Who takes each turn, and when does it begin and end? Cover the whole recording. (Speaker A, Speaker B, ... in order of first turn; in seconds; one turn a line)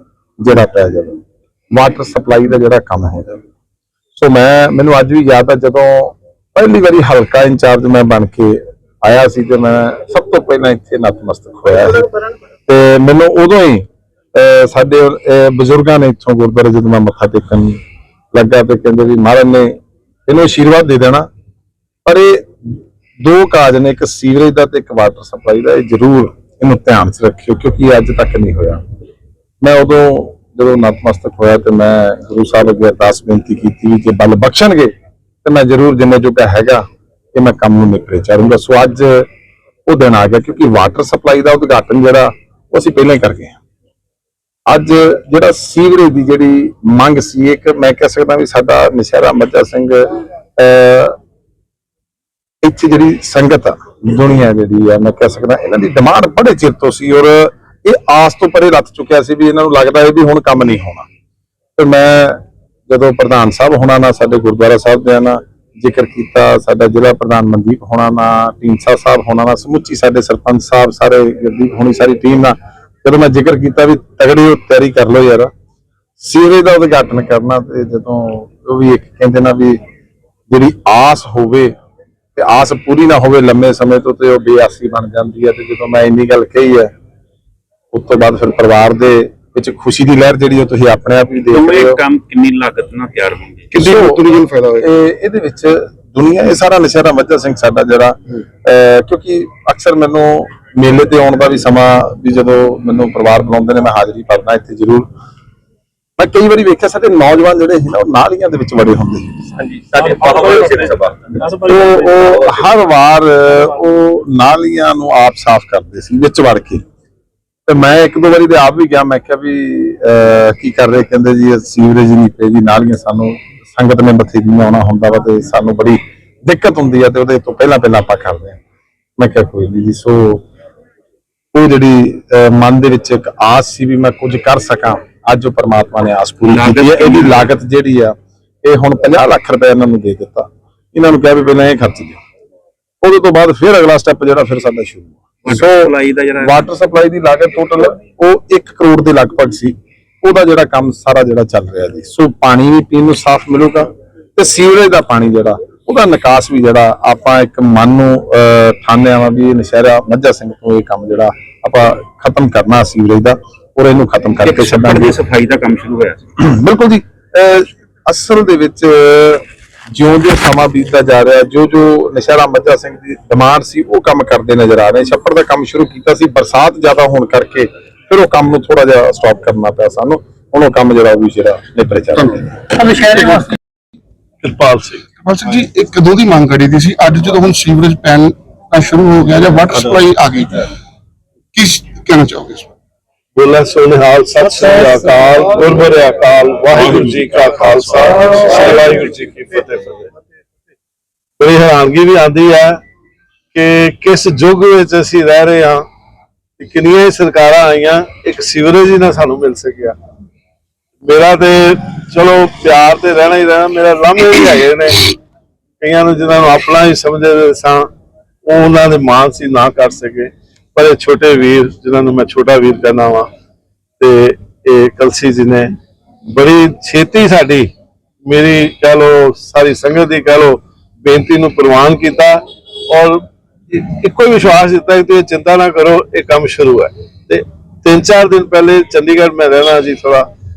Speaker A: 0.4-1.2
Speaker A: 1.7-3.4
Speaker A: 4.1-12.1
Speaker A: 12.7-17.8
Speaker A: 18.3-21.3
Speaker A: 22.1-28.8
Speaker A: 29.6-34.9
Speaker A: 35.4-39.3
Speaker A: 39.9-43.6
Speaker A: 44.7-51.2
Speaker A: 52.6-61.1
Speaker A: 61.8-75.5
Speaker A: 76.2-79.8
Speaker A: 80.5-81.7
Speaker A: 82.3-86.9
Speaker A: 87.9-92.0
Speaker B: 91.5-93.7
Speaker C: 93.7-94.9
Speaker A: 93.8-94.2
Speaker A: 94.8-105.1
Speaker A: 106.2-110.8
Speaker B: 109.9-111.1
Speaker A: 111.3-116.8
Speaker A: 117.7-128.6
Speaker A: 129.2-130.4
Speaker A: 131.5-142.2
Speaker B: 136.5-137.4
Speaker A: 143.0-165.2
Speaker B: 145.4-146.6
Speaker B: 164.4-166.2
Speaker A: 166.4-183.2
Speaker D: 184.4-185.0
Speaker C: 185.2-190.7
Speaker C: 191.5-192.7
Speaker D: 193.4-200.1
Speaker D: 201.4-202.8
Speaker D: 203.5-205.8
Speaker D: 206.6-210.0
Speaker D: 211.0-215.2
Speaker D: 215.8-217.9
Speaker D: 218.4-223.3
Speaker D: 224.0-225.7
Speaker D: 226.3-227.7
Speaker D: 228.3-240.3